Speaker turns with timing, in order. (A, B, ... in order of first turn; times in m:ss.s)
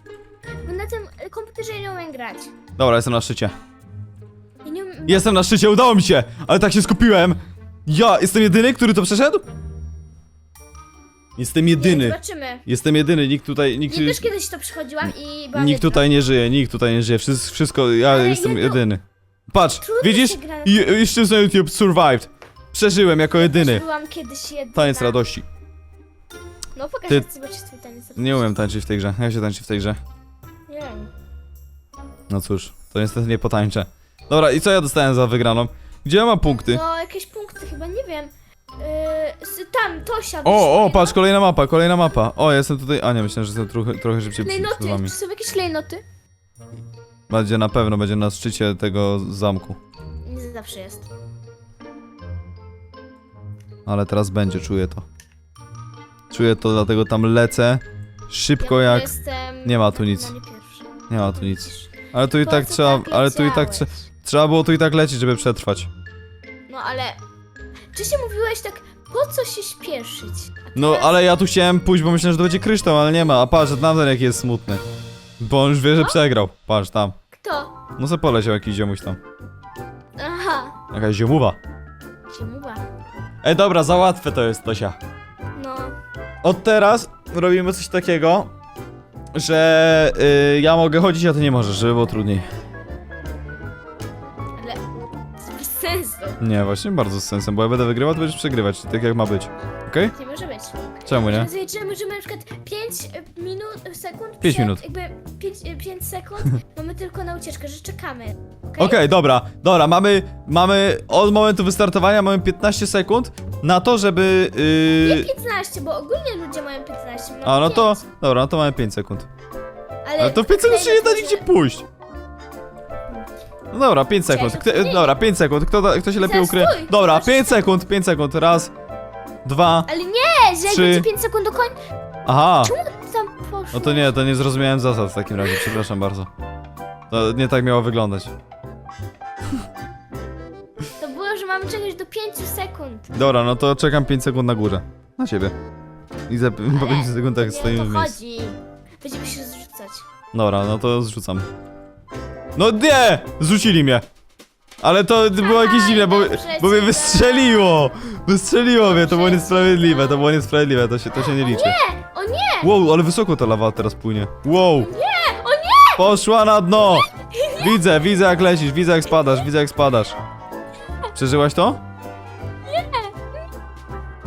0:00.6-0:02.5 A
0:02.8-0:03.5 B
0:04.6-0:05.3 A
0:05.1-0:09.4 B
0:11.4-0:14.3 B
0:11.8-0:12.6 A
0:13.9-0:16.0 A
0:15.0-0:23.8 B
0:18.0-0:18.8 A
0:19.8-0:20.9 A
0:23.3-0:25.2 A
0:24.7-0:25.4 B
0:26.7-0:28.5 A
0:28.2-0:30.0 B
0:30.7-0:31.1 A
0:32.3-0:36.8 B
0:36.6-0:41.2 A
0:40.4-0:45.1 B
0:44.4-0:46.0 A
0:47.3-0:49.8 B
0:50.2-0:51.1 A
0:53.8-0:55.0 B
0:56.3-0:59.1 B
0:58.6-1:03.9 A
0:59.6-1:00.3 B
1:01.1-1:05.9 B
1:06.7-1:07.2 A
1:07.9-1:11.2 A
1:10.8-1:14.8 B
1:15.4-1:17.2 B
1:17.4-1:17.7 A
1:18.0-1:19.2 B
1:20.2-1:20.7 A
1:20.9-1:21.6 B
1:22.3-1:22.8 A
1:23.4-1:25.0 B
1:25.5-1:26.0 A
1:26.4-1:28.5 B
1:29.3-1:32.4 B
1:34.5-1:36.4 A
1:36.4-1:40.1 B
1:40.1-1:49.0 A
1:41.1-1:41.5 B
1:44.4-1:44.8 B
1:48.8-1:55.3 B
1:55.0-1:58.0 A
1:57.4-1:59.3 B
2:00.0-2:01.5 A
2:00.2-2:01.8 B
2:03.7-2:08.7 B
2:04.3-2:05.2 A
2:06.1-2:07.6 A
2:09.4-2:09.9 B
2:09.9-2:11.8 A
2:10.6-2:11.1 B
2:12.2-2:12.7 B
2:12.6-2:14.2 A
2:13.7-2:16.3 B
2:15.4-2:15.8 A
2:17.1-2:18.3 B
2:21.0-2:23.1 A
2:23.1-2:25.5 B
2:26.3-2:28.2 B
2:26.7-2:30.0 A
2:30.3-2:31.5 B
2:32.6-2:34.0 B
2:34.8-2:41.8 B
2:35.4-2:37.9 A
2:38.8-2:40.3 A
2:41.2-2:42.7 A
2:42.6-2:44.9 B
2:44.8-2:46.0 A
2:46.0-2:50.1 B
2:46.9-2:47.8 A
2:51.1-2:51.8 B
2:52.6-2:53.2 A